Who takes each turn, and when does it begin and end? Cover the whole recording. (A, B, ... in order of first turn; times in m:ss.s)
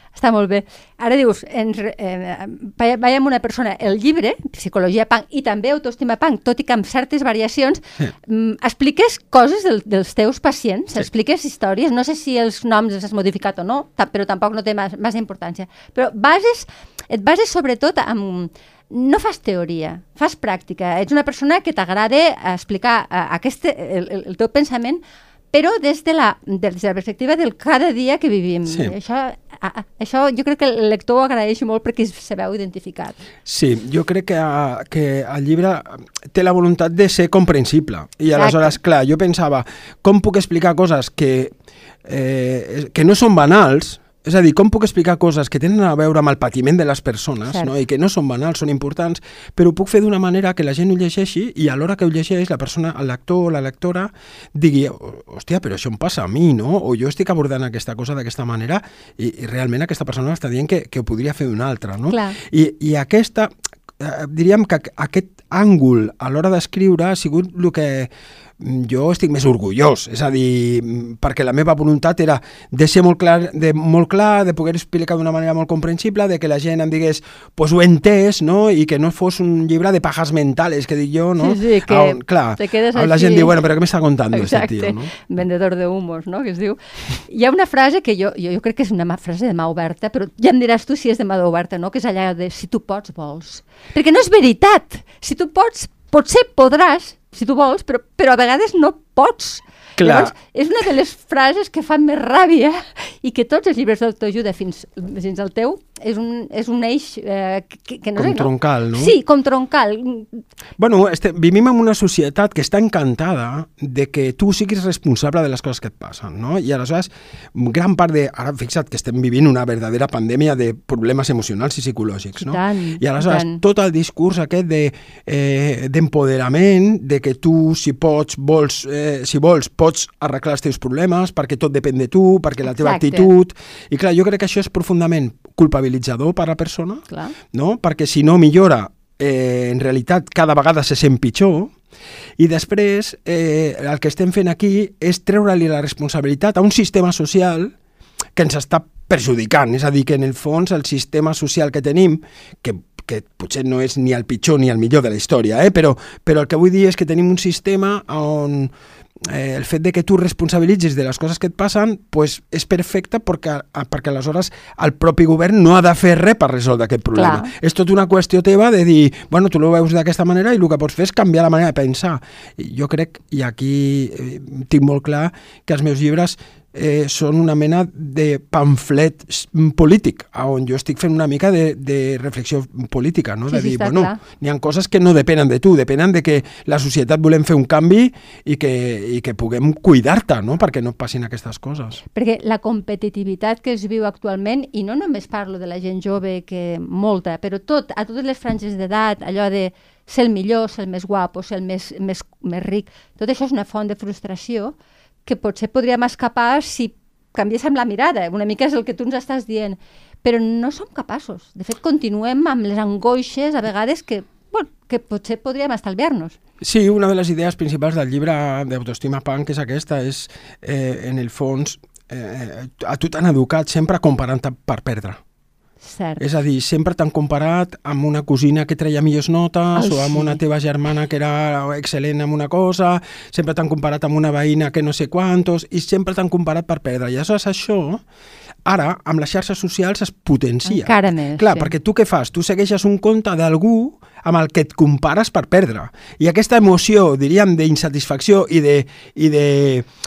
0:00.1-0:25.0 A
0:25.5-0:33.2 A
0:28.6-0:28.9 B
0:33.4-0:41.5 B
0:38.3-0:38.8 A
0:42.0-1:25.1 B
1:02.1-1:02.4 A
1:21.4-1:23.6 A
1:24.3-1:50.4 A
1:40.0-1:40.3 B
1:48.2-1:49.1 B
1:50.8-2:21.7 B
2:02.4-2:03.6 A
2:12.6-2:13.3 A
2:17.1-2:17.4 A
2:22.4-2:27.7 B
2:28.3-2:38.7 B
2:39.3-3:12.0 B
2:47.1-2:47.5 A
3:03.5-3:04.2 A
3:12.1-3:36.4 A
3:36.6-3:45.2 B
3:45.8-3:46.2 A
3:46.2-3:58.0 B
3:49.7-3:50.4 A
3:58.6-4:09.8 B
4:00.6-4:01.7 A